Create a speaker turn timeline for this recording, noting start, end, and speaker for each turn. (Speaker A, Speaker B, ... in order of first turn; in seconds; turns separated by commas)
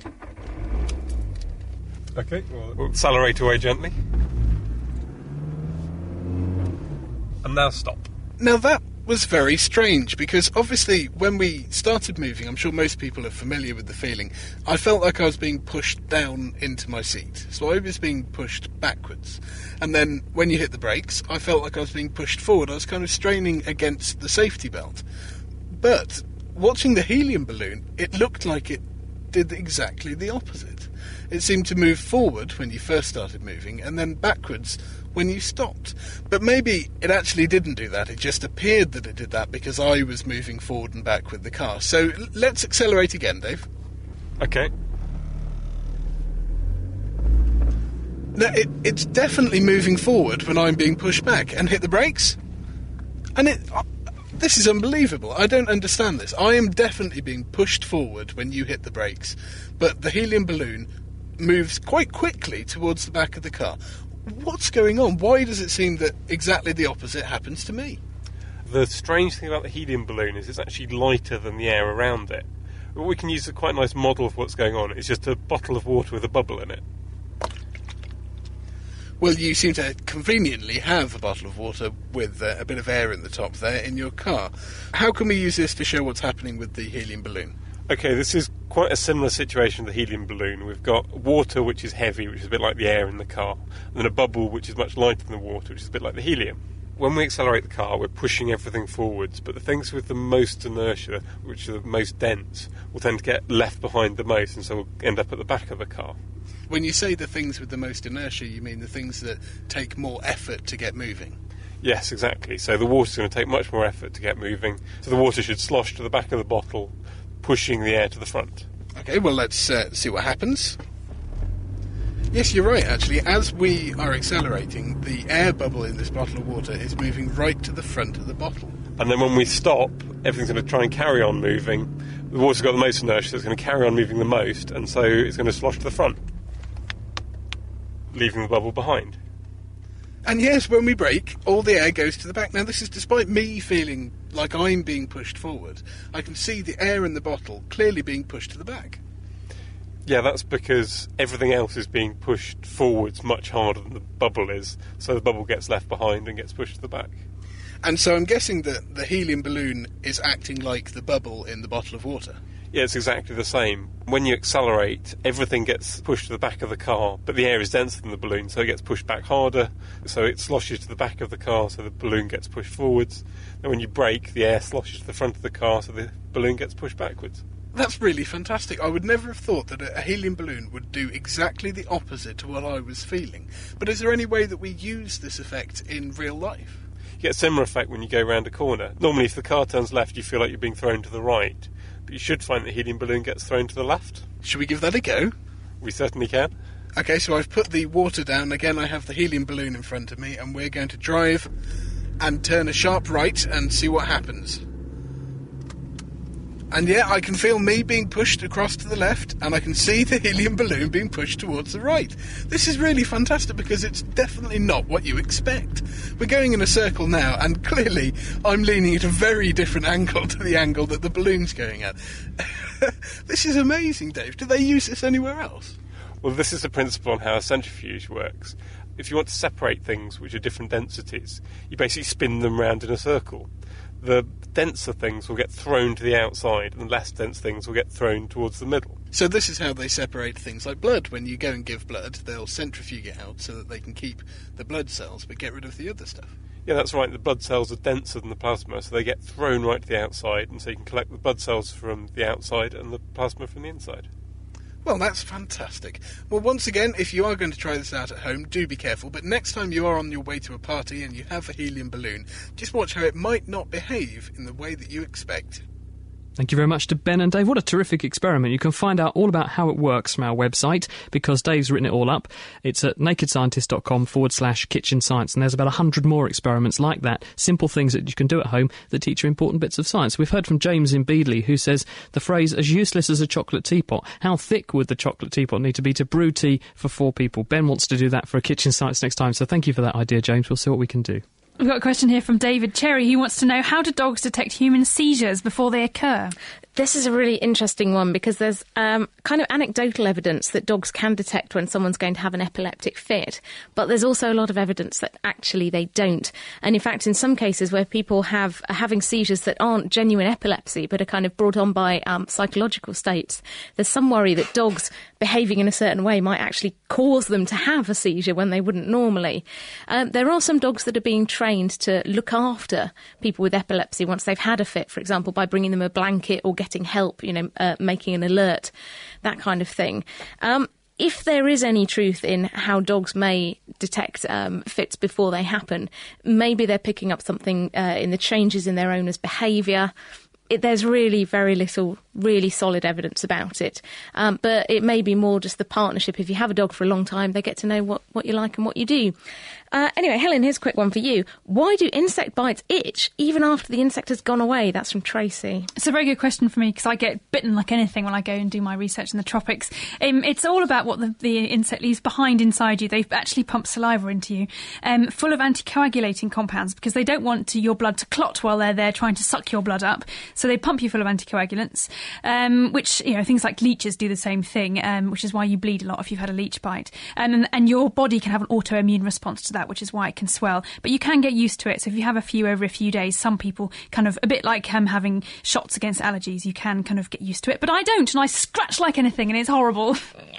Speaker A: 2.1-4.0, Speaker A: 7.4-8.1, Speaker B: 8.4-25.0, Speaker B: 25.7-43.7, Speaker A: 44.4-44.7, Speaker B: 48.4-52.4, Speaker B: 53.4-68.0, Speaker A: 68.6-76.8, Speaker B: 79.2-87.5, Speaker A: 87.9-106.2, Speaker B: 106.7-111.4, Speaker A: 111.8-118.7, Speaker B: 119.0-120.8, Speaker B: 122.3-128.8, Speaker A: 129.0-136.2, Speaker A: 138.1-139.2, Speaker B: 140.2-149.0, Speaker A: 150.1-157.2, Speaker B: 157.8-162.4, Speaker A: 162.7-177.4, Speaker B: 177.7-186.8, Speaker A: 187.2-194.2, Speaker B: 194.4-195.3, Speaker A: 195.8-196.5, Speaker B: 196.9-201.5, Speaker B: 202.2-204.6, Speaker B: 206.7-225.8, Speaker A: 226.2-233.5, Speaker A: 234.0-239.0, Speaker B: 239.1-246.3, Speaker A: 246.7-254.1, Speaker B: 254.8-265.6, Speaker C: 266.4-291.2, Speaker D: 291.6-296.4, Speaker E: 296.8-328.7, Speaker E: 329.2-339.9, Speaker E: 340.5-349.1, Speaker E: 349.7-355.7, Speaker D: 355.8-390.1